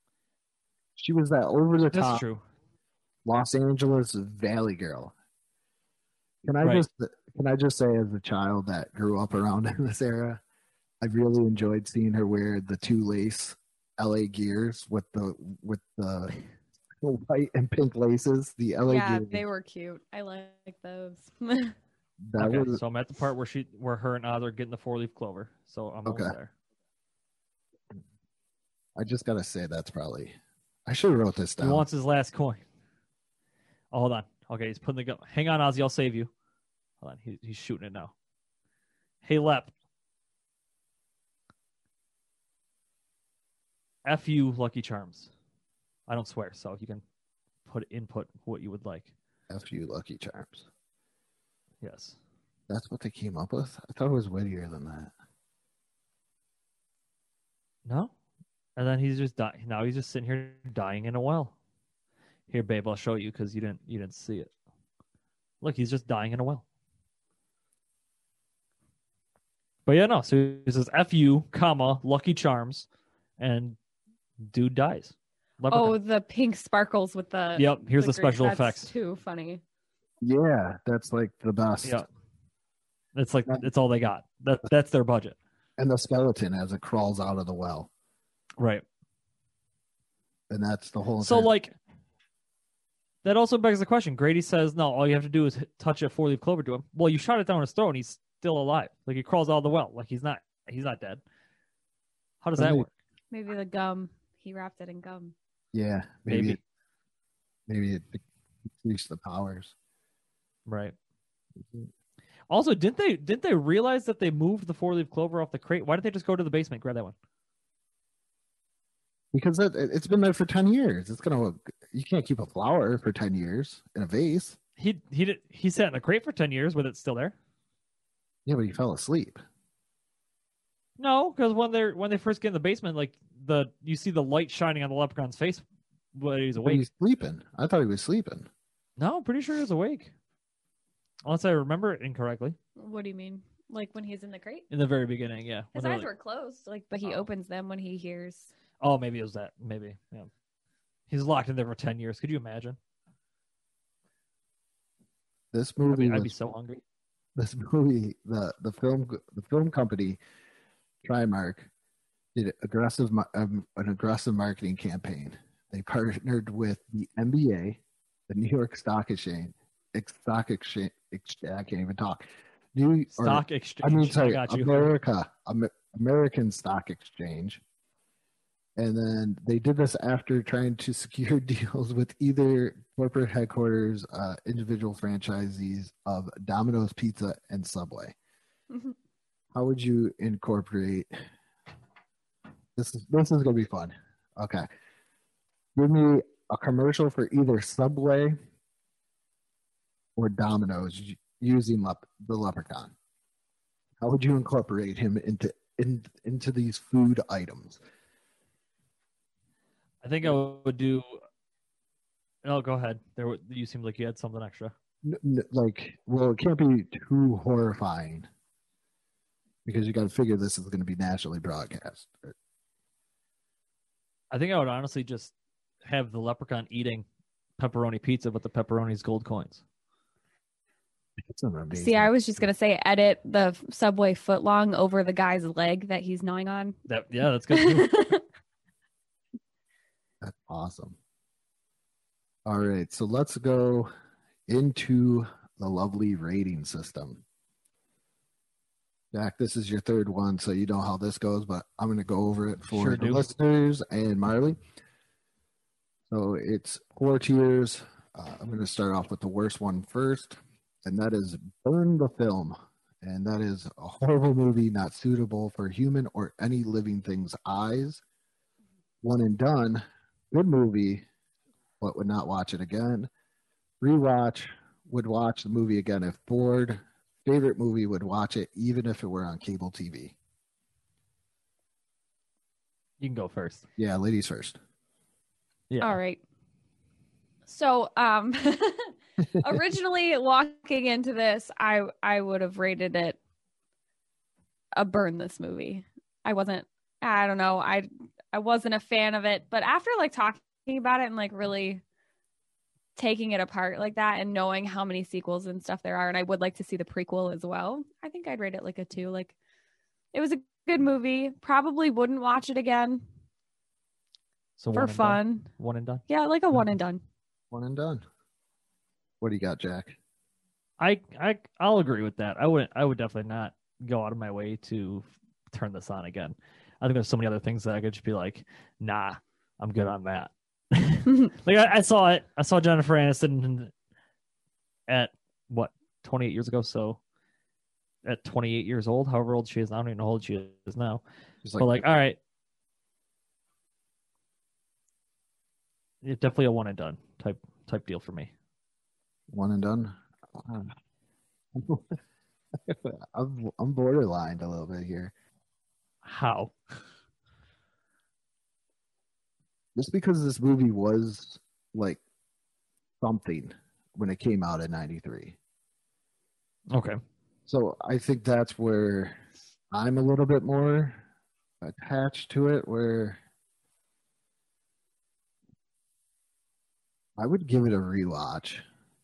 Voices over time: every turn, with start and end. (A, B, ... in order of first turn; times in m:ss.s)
0:01.0-0:02.2 A
0:01.9-0:02.4 B
0:03.2-0:05.1 A
0:06.4-0:10.4 A
0:11.0-0:16.4 A
0:17.0-0:19.4 A
0:18.8-0:21.7 C
0:22.2-0:22.8 A
0:22.4-0:26.5 B
0:26.0-0:26.3 A
0:29.0-0:30.3 A
0:30.8-0:31.8 A
0:31.6-0:32.6 B
0:33.9-0:36.3 B
0:37.0-0:38.1 B
0:39.2-0:39.7 B
0:44.0-0:45.3 B
0:46.1-0:47.0 B
0:47.6-0:49.1 B
0:49.5-0:50.7 A
0:51.8-0:52.2 B
0:52.7-0:55.1 A
0:57.8-0:58.1 B
0:58.8-1:01.5 B
1:02.5-1:04.5 B
1:05.6-1:06.6 B
1:09.8-1:12.9 B
1:13.4-1:13.8 B
1:14.4-1:16.0 B
1:15.7-1:19.6 C
1:17.6-1:18.9 B
1:20.2-1:22.0 A
1:23.1-1:25.4 B
1:25.8-1:27.9 A
1:28.6-1:28.8 B
1:30.5-1:31.5 A
1:31.2-1:31.7 B
1:33.2-1:41.2 B
1:42.4-1:42.9 B
1:42.6-1:42.8 A
1:43.3-1:45.3 C
1:45.7-1:46.6 A
1:46.3-1:46.6 B
1:47.7-1:48.2 A
1:48.8-1:49.7 A
1:50.6-1:50.9 B
1:51.6-1:51.9 A
1:52.5-1:57.1 B
1:59.3-2:04.6 A
2:04.8-2:07.3 B
2:08.4-2:09.4 A
2:11.0-2:16.8 B
2:16.6-2:18.5 A
2:19.0-2:20.1 B
2:21.2-2:22.6 B
2:22.8-2:24.6 C
2:24.7-2:26.1 B
2:25.7-2:28.5 C
2:28.8-2:30.3 B
2:31.1-2:32.8 B
2:35.5-2:36.3 A
2:35.8-2:36.8 B
2:37.4-2:40.2 A
2:41.0-2:41.7 A
2:42.3-2:57.6 A
2:53.1-2:54.9 B
2:58.8-3:08.1 A
3:09.5-3:11.1 A
3:12.8-3:14.6 A
3:15.7-3:18.4 A
3:20.2-3:22.9 A
3:24.0-3:27.8 A
3:30.0-3:31.2 B
3:32.4-3:34.7 B
3:35.0-3:38.3 A
3:39.6-3:42.3 A
3:44.3-3:45.3 B
3:45.8-3:47.0 B
3:47.6-3:49.6 B
3:51.2-3:52.5 A
3:51.7-3:56.8 C
3:56.9-3:58.0 B
3:57.5-3:58.2 C
4:00.2-4:01.0 A
4:02.4-4:03.9 A
4:04.5-4:07.2 A
4:09.1-4:14.6 A
4:12.7-4:13.3 B
4:16.1-4:28.0 A
4:29.0-4:31.0 A
4:31.8-4:33.1 A
4:33.8-4:40.1 A
4:43.0-4:43.6 B
4:43.8-4:44.6 A
4:45.7-4:46.0 B
4:45.8-4:46.2 C
4:47.5-4:53.2 C
4:54.8-5:01.8 C
5:03.0-5:09.3 C
5:10.1-5:13.0 C
5:14.6-5:16.0 B
5:14.7-5:15.5 C
5:16.1-5:17.0 C
5:17.5-5:18.0 A
5:19.2-5:19.9 A
5:20.8-5:33.7 B
5:34.9-5:37.0 B
5:38.0-5:41.0 B
5:41.4-5:41.8 A
5:41.6-5:42.2 B
5:46.0-5:48.3 B
5:49.3-5:50.7 A
5:51.5-5:52.0 A
5:52.6-5:55.1 A
5:56.0-5:56.5 B
5:59.7-6:02.0 A
6:03.0-6:05.4 A
6:06.7-6:07.0 B
6:07.5-6:09.2 A
6:09.7-6:11.0 A
6:11.6-6:13.2 A
6:17.2-6:18.6 A